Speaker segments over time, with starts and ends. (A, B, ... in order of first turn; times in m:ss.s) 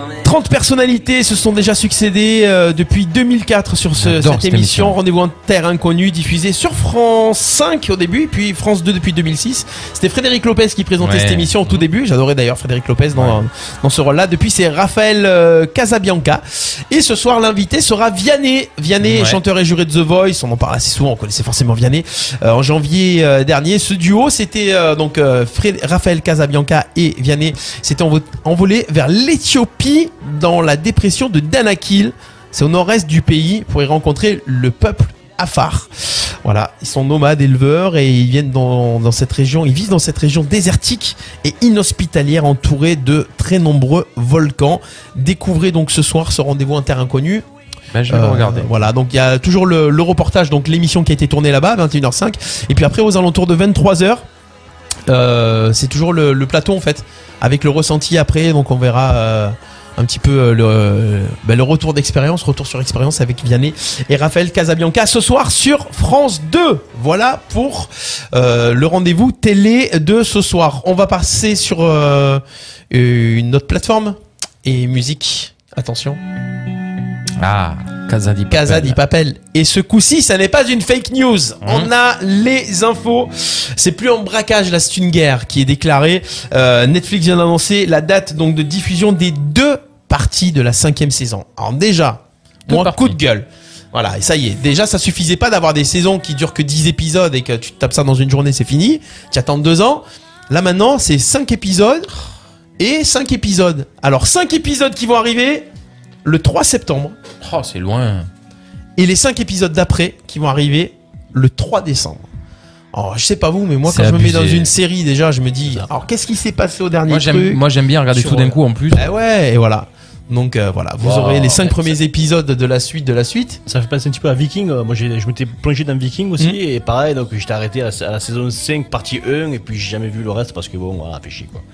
0:00.2-0:47.4 A
0:04.0-0:05.0 B
0:11.0-0:11.8 B
0:13.2-0:13.4 B
0:19.0-0:19.4 B
0:47.9-0:48.7 B
0:48.1-0:54.2 A
0:55.1-1:16.2 A
1:17.4-1:19.0 B
1:18.5-1:42.1 A
1:21.6-1:21.9 B
1:32.7-1:33.2 B
1:42.8-1:45.7 A
1:46.2-1:47.2 A
1:47.4-1:48.3 B
1:49.0-1:52.2 A
1:52.9-1:57.6 A
1:53.8-1:54.7 B
1:57.1-1:59.1 B
1:58.2-1:58.6 C
1:58.9-2:03.6 A
2:01.0-2:01.7 C
2:01.4-2:01.7 B
2:03.7-2:11.6 C